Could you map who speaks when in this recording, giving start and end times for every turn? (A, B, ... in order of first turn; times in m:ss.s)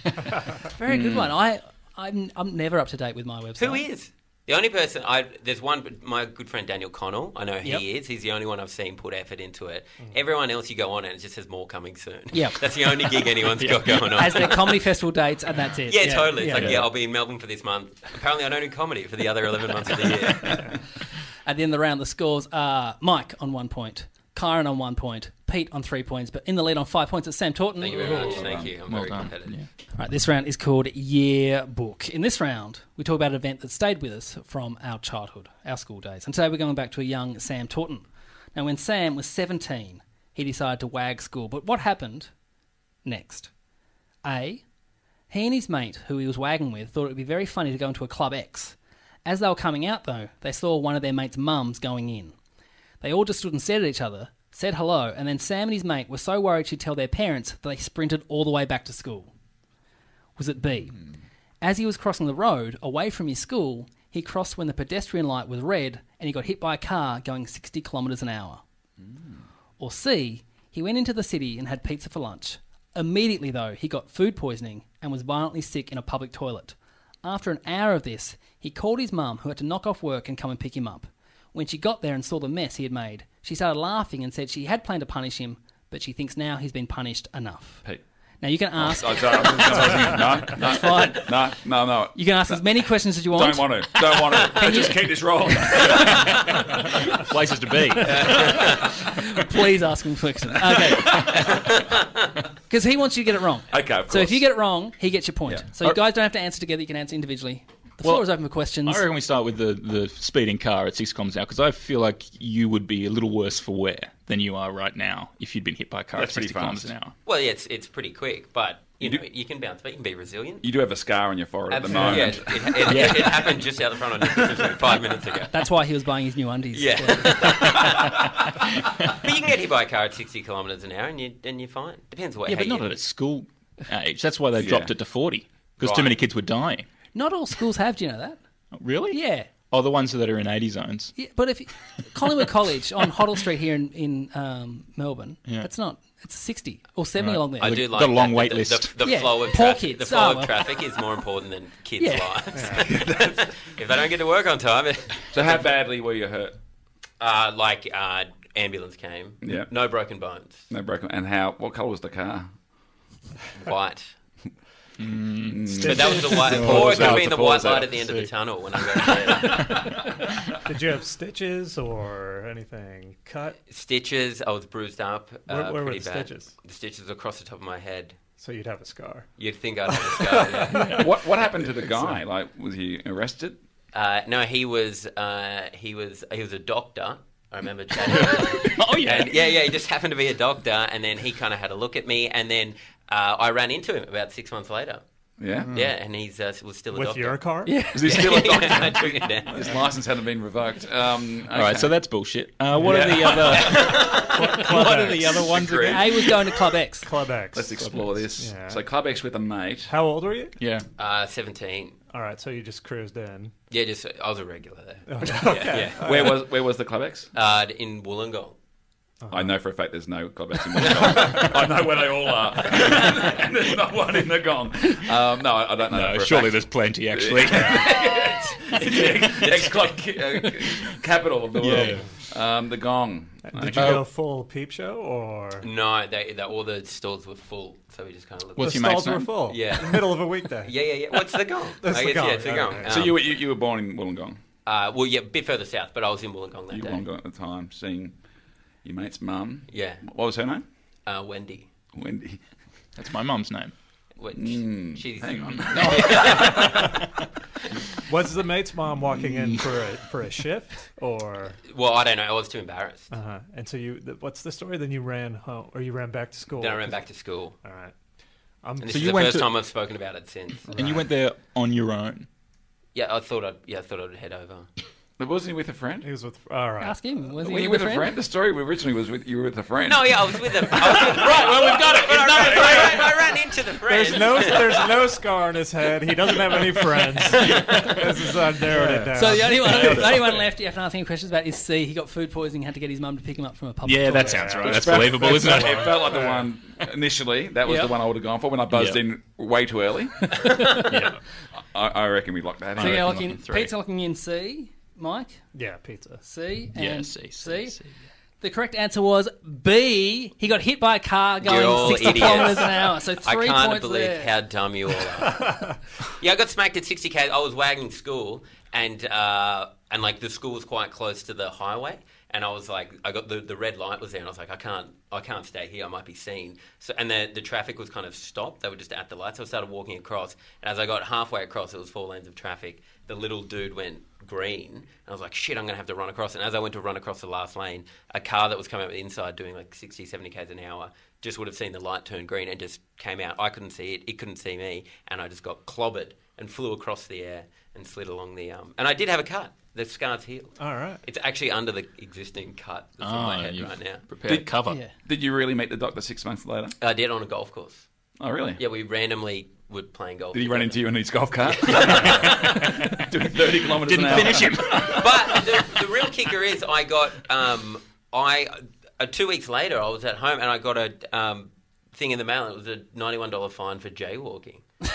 0:00.7-0:03.8 A
0:00.9-0:01.3 B
0:03.6-0:14.8 C
0:12.3-0:12.6 A
0:14.1-0:16.7 A
0:15.9-0:20.8 C
0:16.5-0:16.9 D
0:21.4-0:28.4 A
0:27.8-0:29.6 C
0:27.9-0:28.8 B
0:28.9-0:29.7 D
0:30.0-0:42.3 A
0:43.0-0:43.5 A
0:44.2-0:44.6 A
0:45.3-0:52.3 A
0:53.0-0:59.3 A
1:00.4-1:01.0 A
1:01.6-1:08.6 A
1:09.8-1:27.8 A
1:28.4-1:31.3 A
1:28.8-1:32.2 B
1:32.2-1:35.0 A
1:33.3-1:36.6 B
1:37.3-1:38.5 D
1:38.0-1:41.4 A
1:38.1-1:38.9 B
1:41.1-1:41.6 B
1:42.7-1:49.1 A
1:43.7-1:44.4 B
1:48.0-1:48.3 D
1:48.8-1:57.1 D
1:56.2-1:56.9 B
1:57.3-2:00.6 C
2:00.6-2:03.1 B
2:01.7-2:05.5 C
2:02.9-2:03.5 D
2:05.5-2:07.7 A
2:06.7-2:08.1 C
2:09.0-2:12.9 C
2:12.5-2:16.9 D
2:14.6-2:14.9 B
2:15.8-2:16.2 C
2:17.2-2:18.4 A
2:18.8-2:21.2 D
2:19.1-2:19.5 A
2:21.2-2:27.9 A
2:27.2-2:29.2 D
2:27.6-2:35.7 C
2:29.0-2:30.6 A
2:32.0-2:32.5 A
2:32.5-2:32.9 E
2:32.9-2:33.4 B
2:35.3-2:36.6 B
2:37.2-2:40.7 C
2:39.4-2:39.7 B
2:40.7-2:42.5 B
2:43.6-2:44.1 C
2:45.0-2:48.3 D
2:45.5-2:48.0 B
2:45.8-2:49.9 C
2:48.9-2:49.9 D
2:50.6-2:53.6 E
2:53.7-2:58.2 C
2:55.5-2:56.5 E
2:58.4-2:59.3 E
2:59.4-3:01.0 C
3:00.1-3:01.2 E
3:00.9-3:03.6 B
3:01.7-3:02.2 E
3:03.9-3:15.0 C
3:08.1-3:09.5 D
3:15.4-3:15.8 B
3:15.7-3:17.5 C
3:16.9-3:17.9 E
3:17.7-3:18.7 A
3:17.9-3:22.1 B
3:18.1-3:19.7 C
3:21.5-3:25.8 D
3:22.8-3:26.0 E
3:22.8-3:26.6 B
3:23.7-3:24.3 C
3:25.8-3:27.1 A
3:27.0-3:28.8 E
3:27.5-3:29.9 B
3:29.9-3:30.6 E
3:30.6-3:30.9 D
3:31.0-3:32.0 C
3:32.1-3:33.5 E
3:33.7-3:36.3 C
3:35.1-3:36.4 E
3:36.0-3:37.3 B
3:37.3-3:38.6 C
3:39.2-3:39.6 E
3:39.3-3:54.0 B
3:41.2-3:41.5 E
3:45.9-3:47.9 D
3:49.4-3:49.9 C
3:51.6-3:52.1 D
3:53.5-3:55.7 E
3:53.8-3:54.0 D
3:55.6-4:03.2 C
3:58.6-3:59.5 D
3:58.6-4:00.7 E
4:01.8-4:03.1 E
4:02.9-4:04.4 B
4:04.7-4:07.0 C
4:06.7-4:08.2 B
4:08.8-4:10.6 B
4:09.7-4:10.0 C
4:11.1-4:11.7 C
4:12.0-4:12.4 B
4:13.0-4:13.7 D
4:14.2-4:17.0 C
4:14.4-4:17.0 B
4:15.7-4:16.1 D
4:16.5-4:17.0 E
4:18.1-4:21.6 E
4:21.7-4:23.1 C
4:23.1-4:27.0 E
4:26.6-4:27.6 C
4:27.6-4:27.9 E
4:28.6-4:29.0 E
4:28.8-4:30.7 C
4:28.9-4:29.5 D
4:30.7-4:31.0 E
4:30.8-4:32.3 D
4:33.0-4:34.7 C
4:35.2-4:36.1 B
4:36.0-4:37.0 E
4:36.8-4:38.1 A
4:37.4-4:43.4 B
4:39.9-4:45.2 C
4:43.8-4:50.4 E
4:47.2-4:48.0 C
4:47.5-4:48.0 D
4:49.0-4:54.6 A
4:49.4-4:50.1 D
4:53.8-4:56.0 D
4:54.1-4:56.5 E
4:54.6-5:03.4 B
4:57.6-4:57.9 A
4:58.7-4:59.0 D
5:02.8-5:03.7 D
5:02.8-5:05.4 A
5:05.5-5:06.2 E
5:06.2-5:07.8 A
5:06.7-5:07.9 D
5:08.4-5:14.3 A
5:11.4-5:54.1 C
5:15.4-5:15.8 E
5:50.6-5:51.0 E
5:53.0-5:54.9 D
5:54.3-5:56.8 B
5:56.8-5:57.9 C
5:58.2-5:58.6 B
5:58.6-6:00.8 C
6:00.3-6:05.4 B
6:01.4-6:02.8 C
6:03.8-6:05.3 D
6:04.8-6:14.6 C